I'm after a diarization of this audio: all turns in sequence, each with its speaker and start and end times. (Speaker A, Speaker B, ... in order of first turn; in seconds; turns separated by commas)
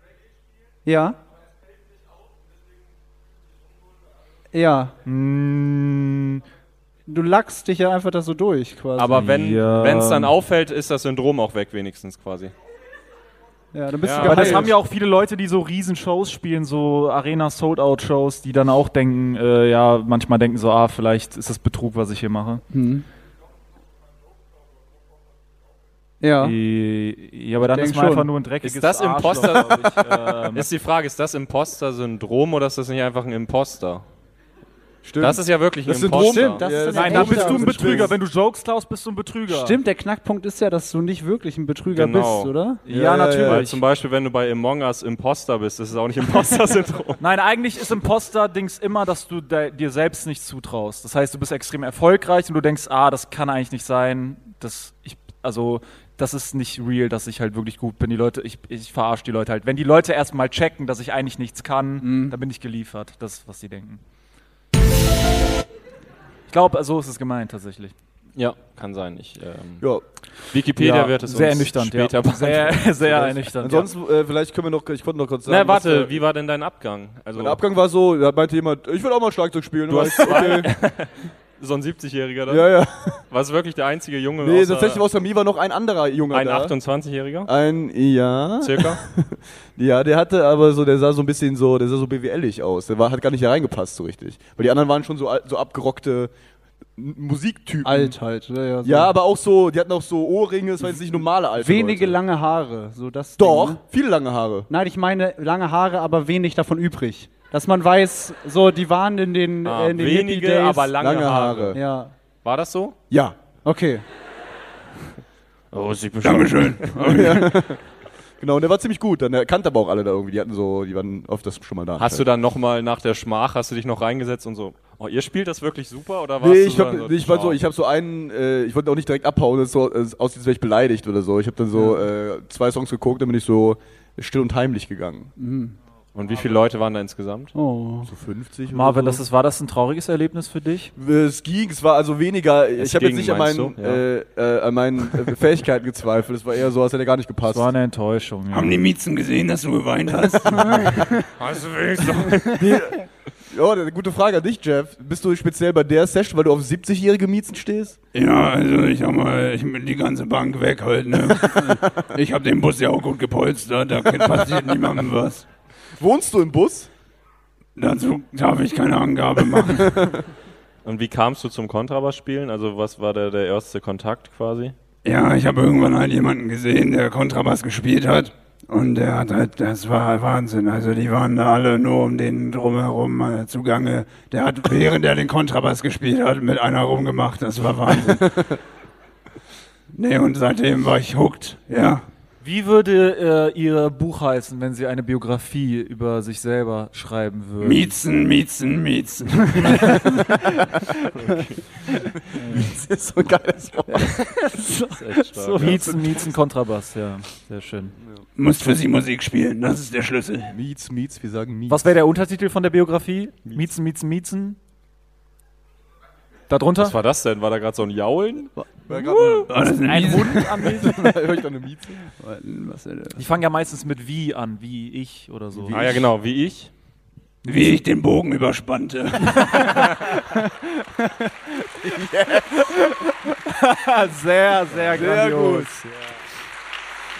Speaker A: 0.8-1.2, Speaker A: 4.5-5.0, Speaker B: 5.1-6.4, Speaker A: 7.1-9.2, Speaker C: 8.9-12.5, Speaker B: 9.2-10.3, Speaker A: 13.7-14.7, Speaker C: 14.0-14.7, Speaker B: 14.2-22.6, Speaker A: 22.7-23.1, Speaker A: 26.2-26.6, Speaker B: 26.4-30.7, Speaker A: 27.6-28.3, Speaker C: 28.6-34.0, Speaker D: 35.0-38.1, Speaker C: 35.2-36.7, Speaker A: 36.1-38.1, Speaker B: 36.9-39.8, Speaker A: 39.5-42.8, Speaker C: 41.9-42.5, Speaker B: 42.9-43.8, Speaker D: 42.9-43.7, Speaker C: 43.5-47.2, Speaker B: 47.2-64.0, Speaker A: 62.0-62.4, Speaker B: 66.5-67.9, Speaker C: 68.4-69.9, Speaker C: 70.5-73.2, Speaker B: 70.8-73.9, Speaker D: 73.0-76.2, Speaker C: 75.5-77.6, Speaker D: 77.3-80.7, Speaker C: 79.9-82.7, Speaker D: 82.5-83.2, Speaker C: 83.3-85.0, Speaker D: 84.4-86.7, Speaker C: 86.3-87.5, Speaker D: 87.5-96.3, Speaker C: 88.6-89.0, Speaker D: 97.0-98.1, Speaker A: 97.8-99.2, Speaker D: 98.8-102.2, Speaker A: 100.8-103.8, Speaker D: 103.4-104.7, Speaker A: 104.7-111.0, Speaker C: 109.6-111.8, Speaker D: 111.0-111.8, Speaker A: 111.7-112.1, Speaker C: 112.4-113.0, Speaker D: 113.1-113.4, Speaker A: 113.7-114.0, Speaker C: 115.7-117.2, Speaker E: 116.2-117.5, Speaker D: 117.0-117.8, Speaker D: 118.4-122.3, Speaker C: 122.0-127.6, Speaker D: 126.4-135.3, Speaker A: 131.7-132.0, Speaker A: 135.4-135.7, Speaker C: 136.2-137.6, Speaker A: 137.5-138.1, Speaker D: 138.1-139.2, Speaker B: 138.7-140.9, Speaker D: 140.9-147.7, Speaker C: 142.8-144.0, Speaker B: 147.4-148.8, Speaker E: 148.5-151.0, Speaker C: 151.4-152.6, Speaker D: 152.6-153.0, Speaker D: 153.5-158.0, Speaker E: 158.1-165.4, Speaker D: 166.0-166.9, Speaker E: 167.8-170.2, Speaker C: 170.8-174.7, Speaker E: 175.0-188.4, Speaker E: 189.9-192.1, Speaker B: 192.4-197.9, Speaker E: 197.6-200.0, Speaker C: 201.1-201.9, Speaker B: 202.3-202.7, Speaker D: 202.5-204.0, Speaker A: 203.9-205.9, Speaker C: 204.9-205.8, Speaker B: 205.5-208.0, Speaker E: 208.4-210.6, Speaker D: 210.5-211.9, Speaker B: 211.7-214.6, Speaker B: 216.5-216.9, Speaker C: 216.8-218.5, Speaker D: 218.9-219.5, Speaker B: 218.9-221.0, Speaker E: 219.5-220.4, Speaker D: 220.3-222.0, Speaker A: 220.8-221.1, Speaker A: 222.0-223.2, Speaker B: 223.2-225.9, Speaker D: 225.5-226.1, Speaker C: 225.7-226.7, Speaker E: 227.4-229.7, Speaker A: 231.1-231.3, Speaker B: 233.4-235.9, Speaker D: 234.9-235.7